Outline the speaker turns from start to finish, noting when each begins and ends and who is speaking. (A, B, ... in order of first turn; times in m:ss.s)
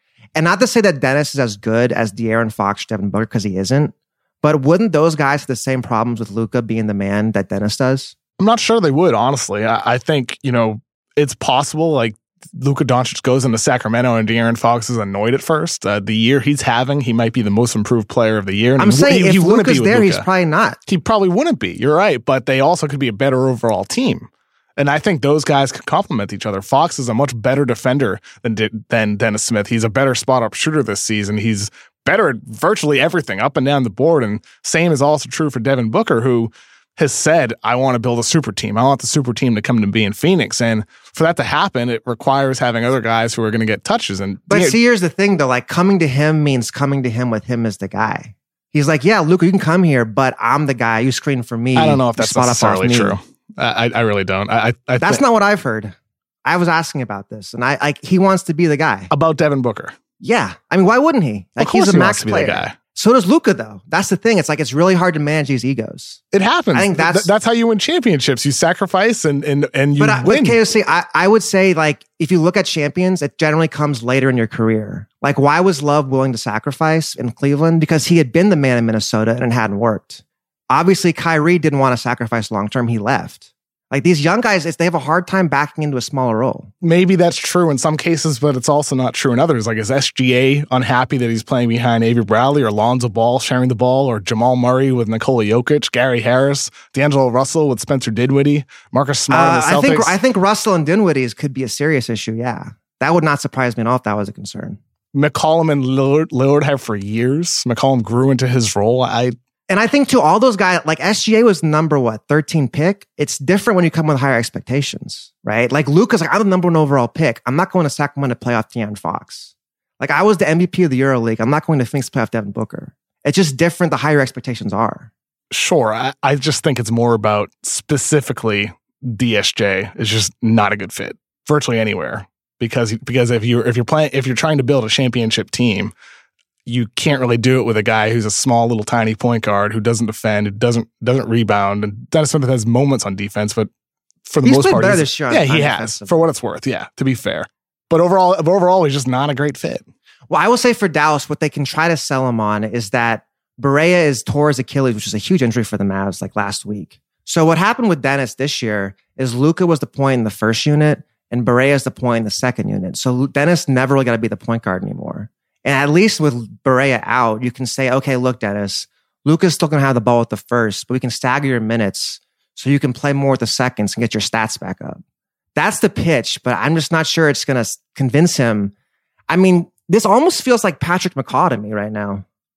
0:00.4-0:08.1 A
0:08.4-0:20.3 B
0:18.8-0:20.8 A
0:20.9-0:44.8 B
0:44.5-0:53.2 A
0:51.8-0:55.2 B
0:55.0-0:59.1 A
0:59.1-1:00.0 B
1:00.2-1:06.2 A
1:01.6-1:02.8 B
1:06.3-1:10.6 B
1:06.7-1:07.3 A
1:10.0-1:26.7 A
1:26.8-1:40.2 B
1:39.3-1:44.8 A
1:45.1-1:49.4 B
1:49.7-2:05.1 A
2:05.5-2:15.9 B
2:16.7-2:23.7 B
2:24.3-2:29.8 B
2:24.4-2:26.1 A
2:30.3-2:55.0 A
2:55.6-2:58.7 A
2:59.3-3:02.2 A